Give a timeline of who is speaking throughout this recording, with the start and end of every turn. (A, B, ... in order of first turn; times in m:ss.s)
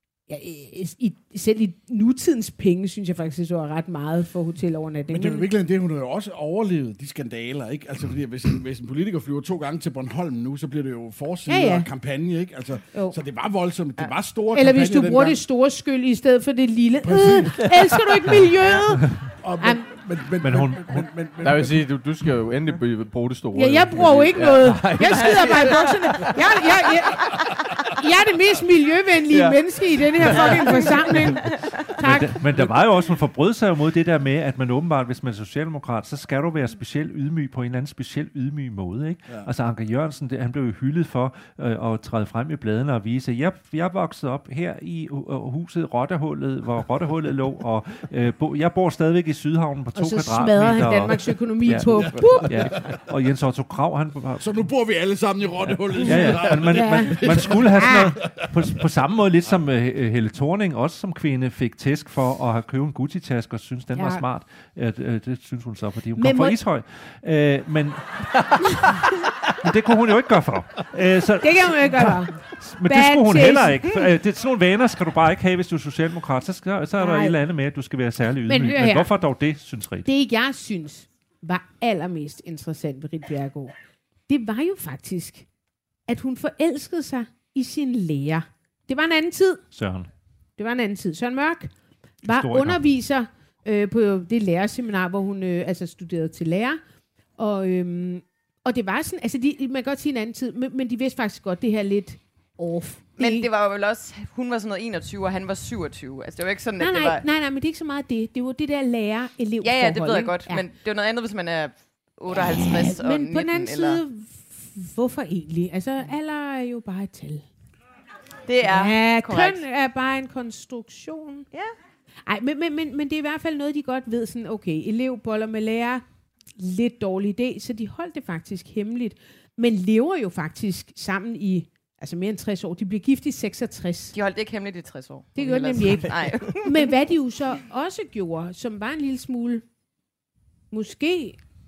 0:00.3-0:05.5 A
0:05.1-0:15.4 B
0:11.5-0:11.9 A
0:14.5-0:19.8 A
0:17.0-0:17.9 B
0:19.4-0:21.9 B
0:20.4-0:21.0 C
0:21.4-0:26.4 D
0:23.5-0:32.4 A
0:25.1-0:25.8 E
0:29.3-0:31.0 D
0:30.3-0:30.8 E
0:32.0-0:54.6 C
0:49.9-0:52.8 A
0:51.9-0:53.0 B
0:54.4-0:58.8 B
0:55.9-1:09.1 C
0:56.3-0:58.1 A
1:03.9-1:04.2 A
1:06.2-1:06.6 A
1:09.6-1:20.1 C
1:11.4-1:14.1 A
1:17.0-1:17.4 A
1:18.4-1:19.1 A
1:20.0-1:23.7 A
1:24.3-1:25.4 A
1:26.1-1:29.6 A
1:29.7-1:30.1 C
1:30.6-1:31.7 A
1:32.2-1:36.8 A
1:32.2-1:32.8 C
1:37.4-1:43.5 A
1:43.2-1:47.2 E
1:46.8-1:50.6 A
1:49.6-1:54.0 E
1:52.3-1:57.4 A
1:58.5-1:59.6 E
1:58.6-2:01.5 A
2:02.3-2:06.0 A
2:06.6-2:14.1 A
2:14.1-2:16.9 E
2:15.4-2:19.6 A
2:15.8-2:16.5 D
2:20.7-2:21.4 A